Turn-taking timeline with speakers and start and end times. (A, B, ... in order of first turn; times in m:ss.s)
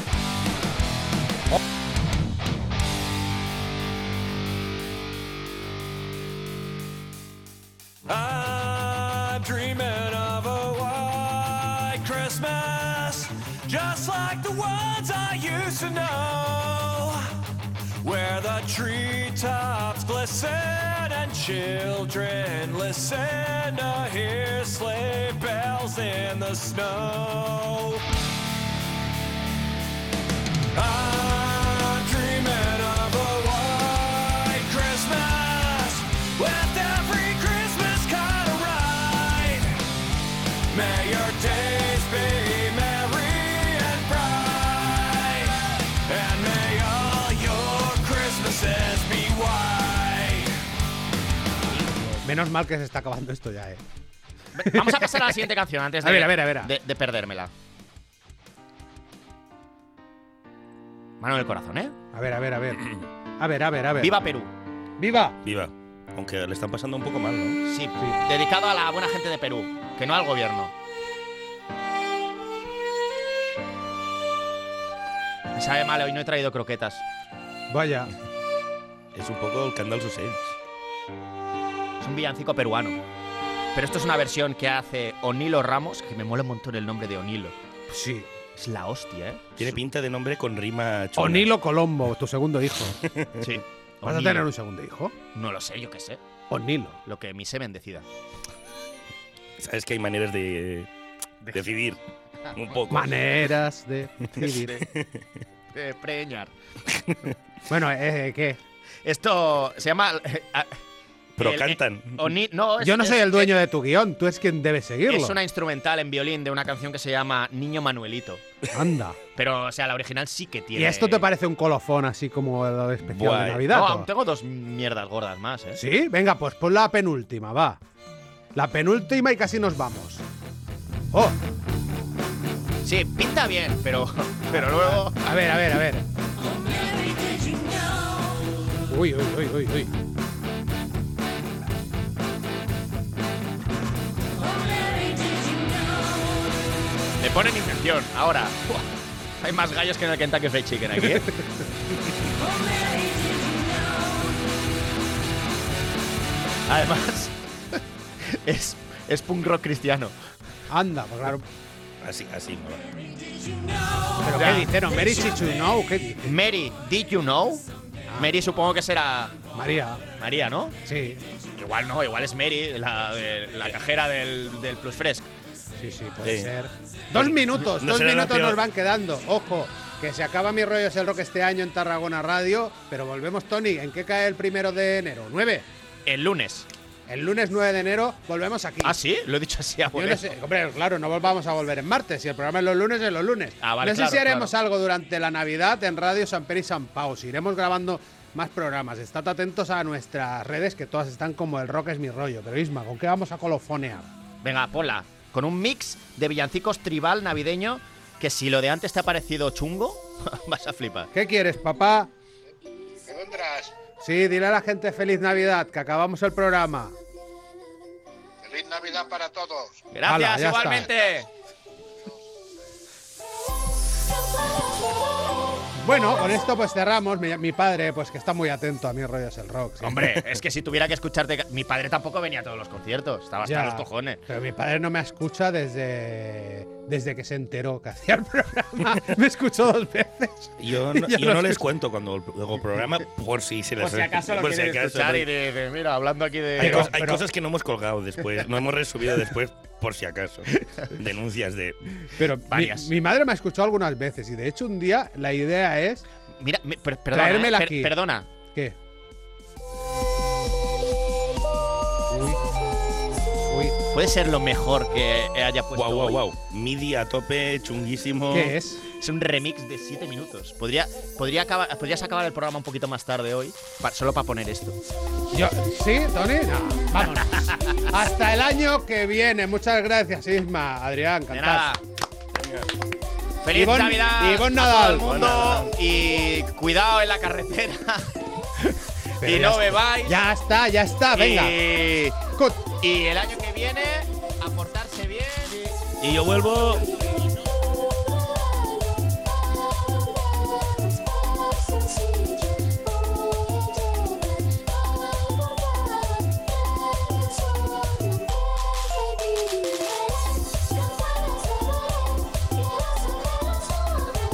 0:08.0-0:17.3 A
0:18.0-0:28.0 A
0:30.7-0:39.8 A
0:40.7-0:50.6 A
0:52.1-0:53.8 B
0:54.6-0:57.5 C
0:54.6-0:55.4 B
0:56.0-0:56.7 B
1:01.2-1:02.0 C
1:02.1-1:04.2 B
1:04.0-1:04.5 C
1:05.0-1:05.4 B
1:05.4-1:07.6 D
1:07.6-1:10.7 C
1:15.6-1:17.0 C
1:17.7-1:18.1 B
1:19.1-1:20.6 D
1:22.0-1:23.0 C
1:23.7-1:27.6 C
1:27.9-1:28.3 B
1:28.6-1:29.8 C
1:29.6-1:31.5 D
1:31.2-1:33.0 B
1:33.4-1:34.4 C
1:34.0-1:35.1 B
1:35.3-1:36.2 C
1:36.5-1:37.0 B
1:37.0-1:38.0 C
1:39.6-1:40.9 D
1:41.4-1:41.7 C
1:41.5-1:42.0 D
1:42.5-1:43.4 D
1:42.9-1:44.7 B
1:44.8-1:45.2 D
1:45.7-1:46.5 C
1:47.7-1:48.6 B
1:49.0-1:50.8 C
1:51.4-1:52.2 D
1:51.4-1:53.6 C
1:52.8-1:55.4 B
1:55.1-1:58.4 C
1:58.7-1:59.2 B
1:59.4-2:01.3 C
2:00.7-2:04.1 B
2:03.0-2:05.8 C
2:05.7-2:07.8 B
2:08.5-2:10.2 B
2:12.8-2:15.2 C
2:14.5-2:16.0 B
2:18.9-2:19.9 B
2:27.2-2:28.9 C
2:29.4-2:31.3 C
2:31.0-2:31.5 B
2:36.7-2:37.3 C
2:38.2-2:40.1 C
2:40.7-2:41.4 B
2:42.0-2:42.9 D
2:44.2-2:46.4 B
2:44.3-2:45.2 C
2:46.2-2:47.6 C
2:48.1-2:48.4 B
2:48.2-2:49.3 C
2:49.5-2:50.0 B
2:50.2-2:50.8 C
2:50.8-2:51.2 B
2:51.6-2:55.3 C
2:55.8-3:05.6 B
2:56.2-2:56.5 D
2:57.1-2:58.6 D
3:06.0-3:06.7 C
3:07.1-3:09.0 B
3:08.8-3:10.3 C
3:09.9-3:24.1 B
3:13.6-3:14.5 C
3:24.4-3:31.1 C
3:31.1-3:32.1 B
3:33.0-3:33.8 E
3:34.0-3:36.9 B
3:38.4-3:39.8 E
3:39.9-3:41.3 C
3:40.0-3:40.9 B
3:45.8-3:50.2 B
3:49.8-3:54.2 C
3:53.4-4:01.6 B
4:00.6-4:05.3 D
4:03.8-4:07.0 C
4:06.6-4:11.8 D
4:06.6-4:07.3 B
4:12.2-4:16.0 B
4:12.5-4:12.9 C
4:16.4-4:18.3 C
4:17.1-4:17.9 B
4:22.1-4:22.4 B
4:23.5-4:23.8 B
4:23.9-4:26.2 C
4:25.7-4:28.6 D
4:28.3-4:28.8 B
4:29.0-4:34.8 C
4:35.3-4:41.7 B
4:37.3-4:37.8 C
4:41.3-4:41.8 C
4:43.4-4:50.2 C
4:43.5-4:45.6 B
4:45.2-4:45.5 D
4:49.2-4:51.6 B
4:51.1-4:55.7 C
4:52.3-4:52.7 B
4:56.0-4:56.9 D